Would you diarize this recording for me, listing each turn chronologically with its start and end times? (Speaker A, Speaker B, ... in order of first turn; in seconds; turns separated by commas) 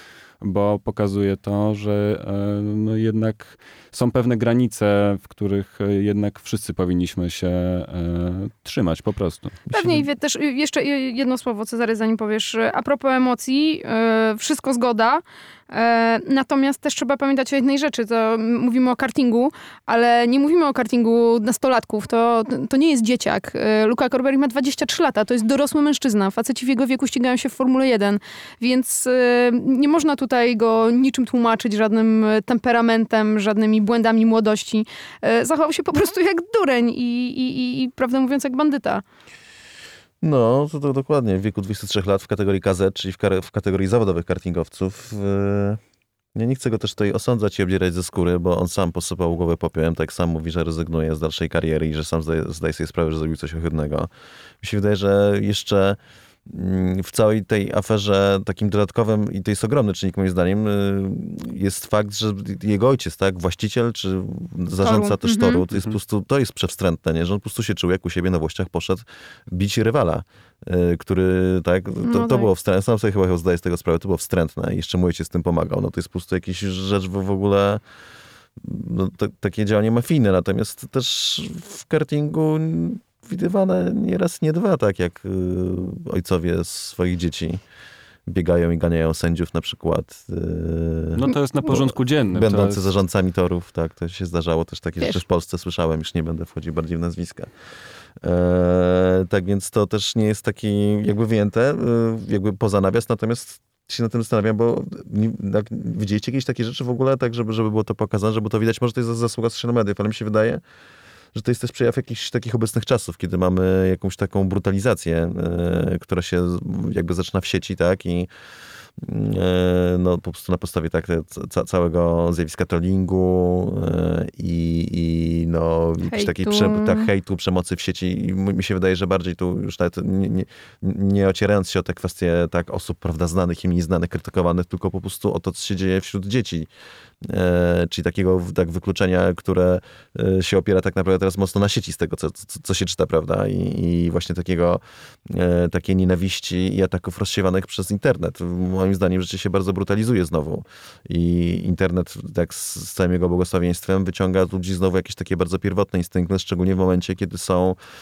Speaker A: 0.4-9.6, Speaker B: 9.7-10.0, Speaker C: 9.7-39.0, Speaker B: 40.2-45.8, Speaker B: 46.3-54.1, Speaker B: 54.6-77.8, Speaker C: 64.8-65.6, Speaker C: 72.0-72.5, Speaker B: 78.6-87.6, Speaker B: 88.2-97.5, Speaker A: 91.2-92.9, Speaker B: 98.2-110.6, Speaker B: 111.3-118.3, Speaker B: 119.0-136.7, Speaker C: 126.0-127.1, Speaker B: 137.2-157.8